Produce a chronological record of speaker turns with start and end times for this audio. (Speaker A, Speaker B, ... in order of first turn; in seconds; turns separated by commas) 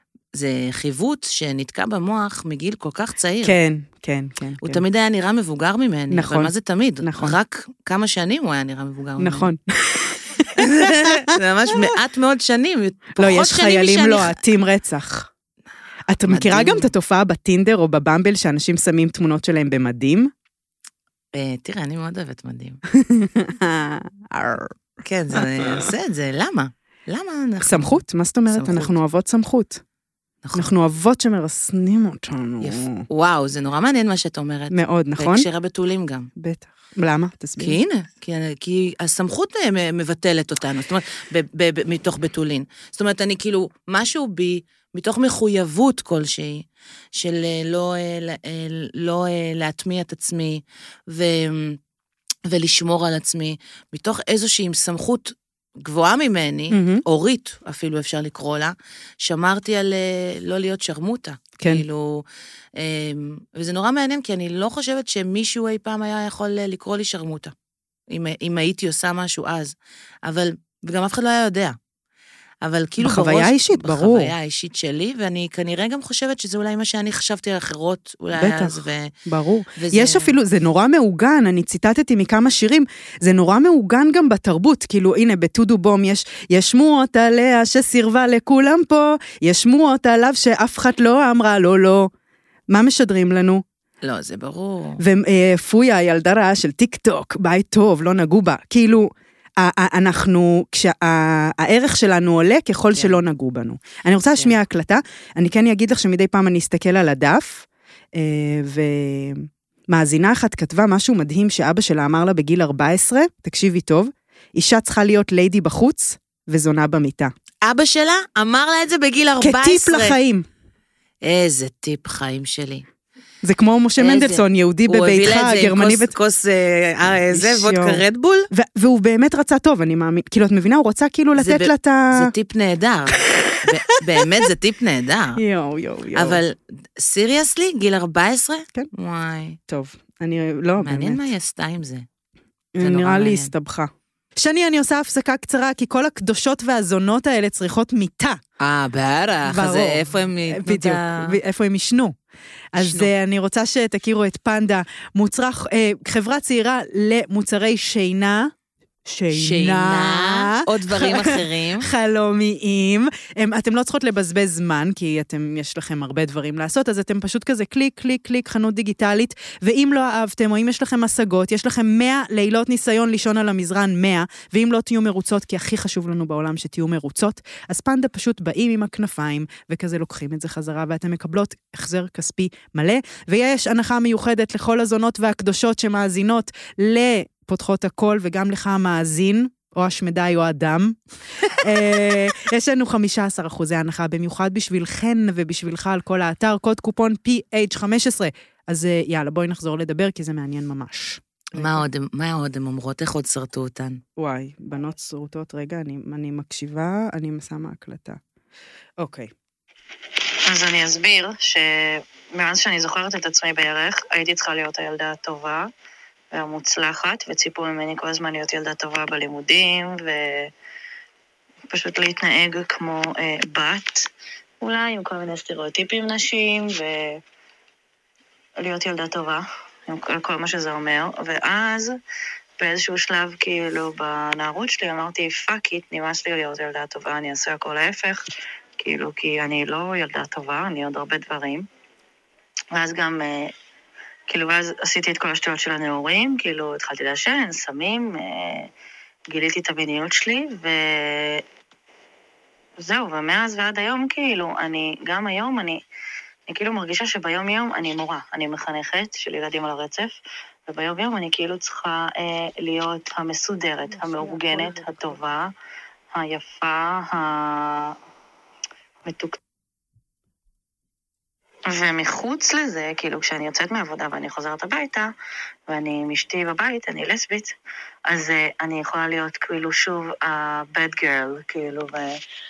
Speaker A: 0.3-3.5, Speaker B: 3.4-4.8, Speaker A: 4.6-9.5, Speaker B: 6.1-7.4, Speaker B: 9.2-11.7, Speaker A: 10.5-14.3, Speaker B: 13.2-15.3, Speaker B: 16.1-20.3, Speaker A: 16.3-16.9, Speaker A: 21.3-22.8, Speaker B: 22.9-24.7, Speaker A: 25.0-29.0, Speaker B: 25.3-25.9, Speaker B: 27.6-29.8, Speaker A: 30.4-30.7, Speaker B: 30.5-33.0, Speaker A: 32.6-36.3, Speaker B: 34.7-35.5, Speaker B: 36.4-37.8, Speaker A: 37.6-51.8, Speaker A: 52.5-62.2, Speaker B: 56.7-57.0, Speaker A: 62.8-67.5, Speaker A: 68.1-71.8, Speaker A: 72.6-79.1, Speaker B: 73.0-74.3, Speaker B: 78.3-92.1, Speaker A: 79.8-80.3, Speaker B: 92.7-93.6, Speaker A: 94.0-95.0, Speaker B: 95.0-117.3, Speaker A: 102.9-103.2, Speaker A: 117.6-120.2, Speaker B: 119.4-120.5, Speaker A: 121.2-122.8, Speaker B: 123.4-126.1, Speaker A: 124.0-128.5, Speaker B: 127.3-132.3, Speaker A: 131.3-135.4, Speaker B: 135.4-136.4, Speaker A: 136.1-139.6, Speaker B: 139.7-141.2, Speaker A: 140.8-142.1, Speaker B: 142.7-148.4, Speaker A: 142.8-143.5, Speaker A: 148.6-151.4, Speaker B: 149.4-152.2, Speaker B: 152.7-158.5, Speaker A: 152.7-153.1, Speaker B: 159.1-201.8, Speaker A: 159.3-161.9, Speaker A: 201.5-204.0, Speaker B: 204.2-208.2, Speaker B: 209.0-209.3, Speaker C: 210.4-215.7, Speaker C: 216.3-220.5, Speaker C: 221.7-224.1, Speaker C: 224.6-227.2, Speaker C: 228.6-232.0, Speaker C: 232.6-238.2, Speaker C: 238.8-241.7, Speaker C: 242.7-243.5, Speaker C: 244.3-248.7, Speaker C: 249.3-251.4, Speaker C: 252.8-255.8, Speaker C: 256.5-260.1, Speaker C: 260.7-265.5, Speaker B: 263.9-265.2, Speaker C: 266.1-267.9, Speaker C: 269.0-269.4, Speaker C: 271.7-275.1, Speaker C: 275.7-277.5, Speaker C: 278.1-282.2